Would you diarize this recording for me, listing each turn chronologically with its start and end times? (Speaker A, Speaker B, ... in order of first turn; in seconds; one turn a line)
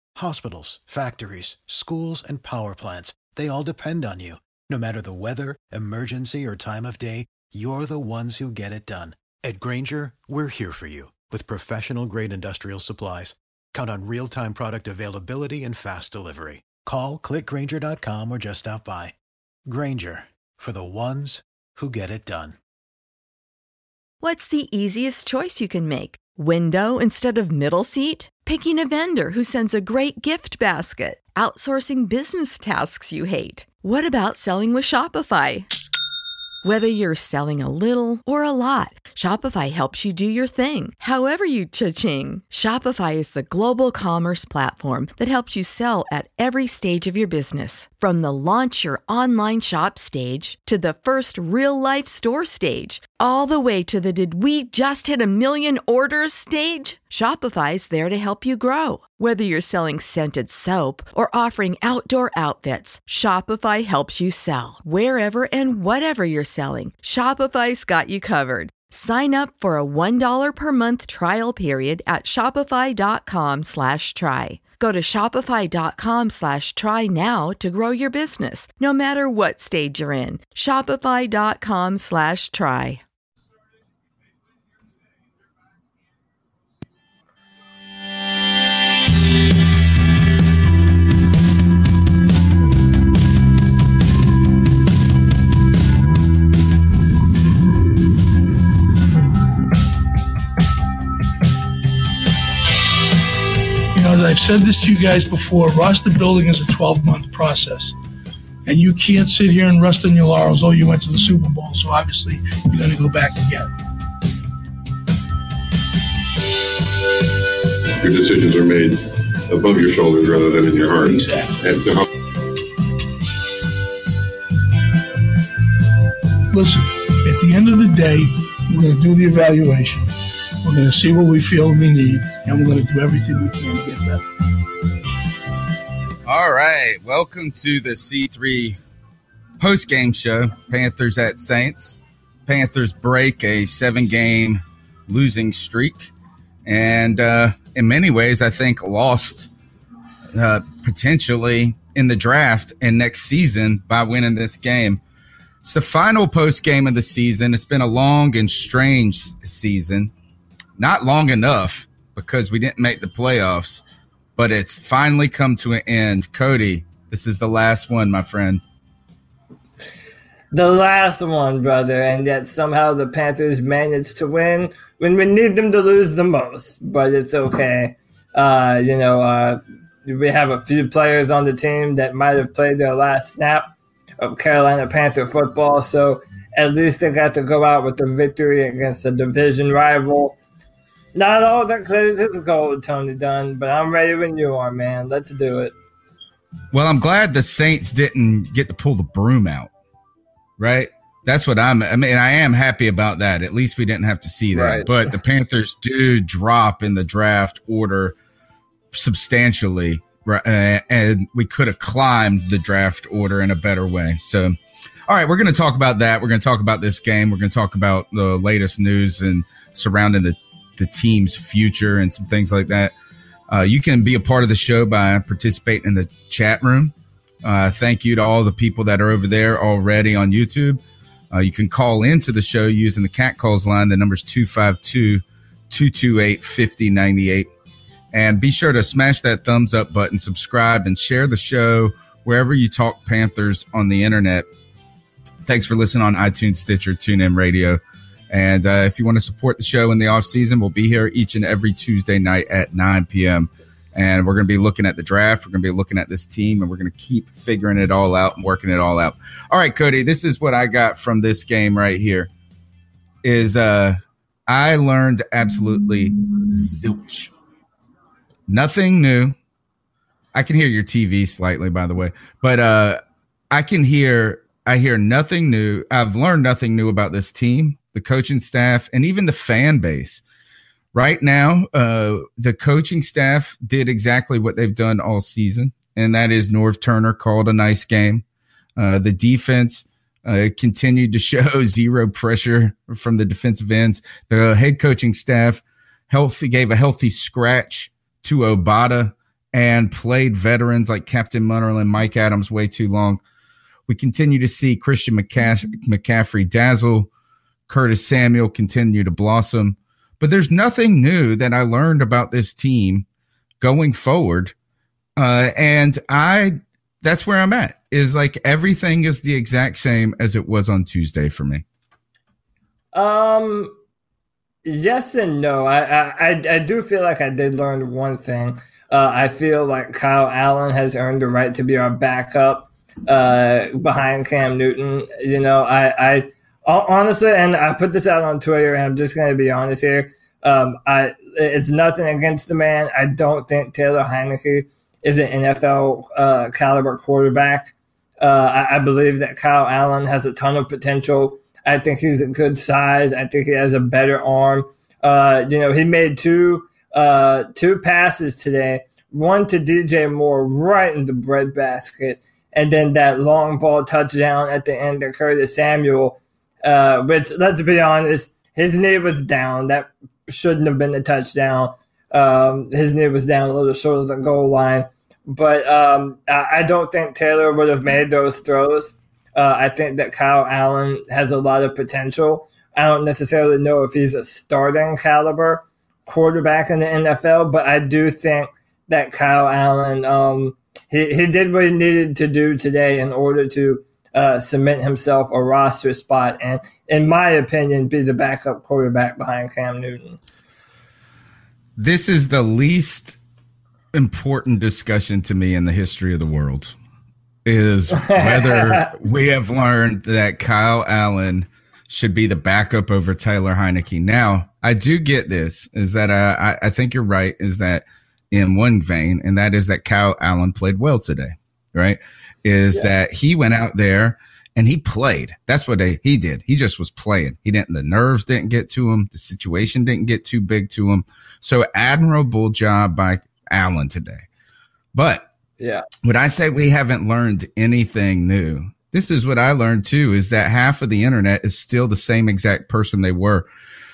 Speaker A: 0.2-19.1
Speaker A: 19.7-22.6
Speaker B: 24.2-35.7
Speaker B: 36.6-83.0
Speaker C: 103.9-108.0
Speaker C: 108.7-113.7
Speaker D: 118.0-122.0
Speaker C: 121.0-121.6
Speaker C: 126.5-134.2
Speaker E: 136.3-138.8
Speaker E: 139.6-146.1
Speaker E: 146.7-149.5
Speaker E: 150.3-155.0
Speaker E: 155.6-160.1
Speaker E: 160.8-163.8
Speaker E: 164.4-168.6
Speaker F: 170.5-183.7
Speaker F: 184.2-190.4
Speaker F: 191.1-195.7
Speaker E: 196.7-199.7
Speaker E: 200.6-208.2
Speaker F: 204.5-204.9
Speaker E: 208.9-214.6
Speaker E: 215.1-222.9
Speaker E: 223.5-230.8
Speaker E: 231.3-237.5
Speaker E: 238.1-244.5
Speaker E: 245.4-247.8
Speaker E: 248.3-262.3
Speaker E: 263.2-267.3
Speaker E: 268.5-269.4
Speaker E: 270.3-273.0
Speaker E: 273.5-280.2
Speaker E: 280.9-288.2
Speaker E: 288.8-303.2
Speaker E: 303.9-307.1
Speaker E: 307.7-313.1
Speaker E: 313.6-314.5
Speaker E: 315.2-321.6
Speaker F: 322.9-323.7
Speaker F: 324.6-400.2
Speaker E: 401.8-403.2
Speaker E: 403.9-406.8
Speaker E: 407.4-434.3
Speaker F: 407.9-408.9
Speaker E: 434.9-435.3
Speaker F: 435.6-435.9
Speaker E: 436.0-443.5